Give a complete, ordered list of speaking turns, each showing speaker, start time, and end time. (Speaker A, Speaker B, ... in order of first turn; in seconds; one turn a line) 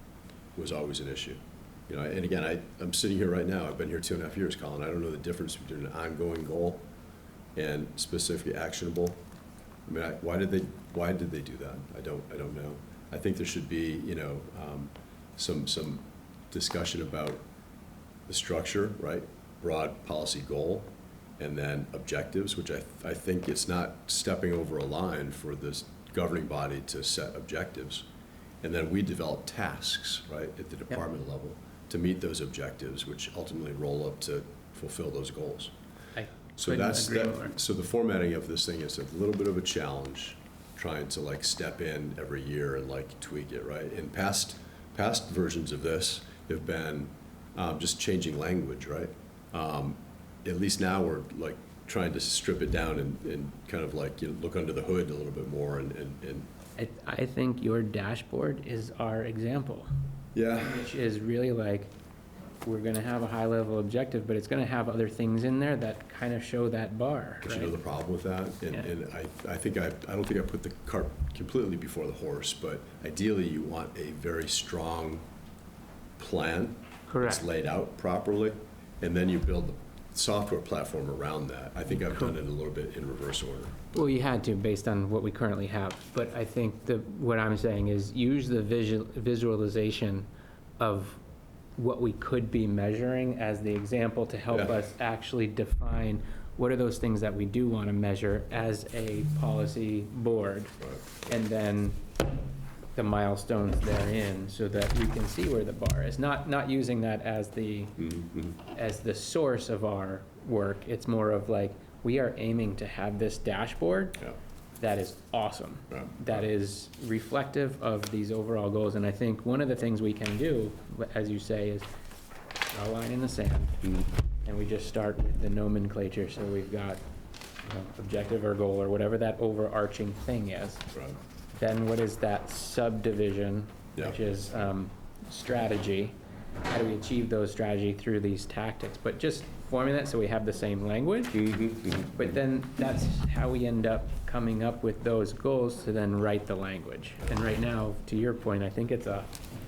Speaker A: 0.6-6.8
Speaker A: 7.5-9.2
Speaker A: 9.8-17.4
Speaker A: 18.3-28.1
Speaker A: 28.6-35.7
Speaker B: 36.1-37.5
Speaker A: 36.5-56.5
Speaker B: 56.8-59.9
Speaker A: 60.3-60.9
Speaker B: 60.6-61.9
Speaker B: 62.6-67.8
Speaker A: 67.4-75.2
Speaker A: 76.2-83.8
Speaker B: 77.1-77.5
Speaker B: 82.0-82.3
Speaker B: 83.9-90.3
Speaker B: 90.8-91.2
Speaker B: 91.8-102.0
Speaker A: 94.5-94.7
Speaker B: 102.9-108.0
Speaker A: 108.0-108.6
Speaker B: 108.6-114.2
Speaker B: 114.8-121.9
Speaker A: 115.9-116.4
Speaker B: 122.7-123.9
Speaker B: 124.4-127.0
Speaker B: 127.6-130.8
Speaker A: 130.9-131.2
Speaker B: 131.5-136.1
Speaker B: 136.7-141.5
Speaker A: 141.3-142.4
Speaker B: 142.1-149.3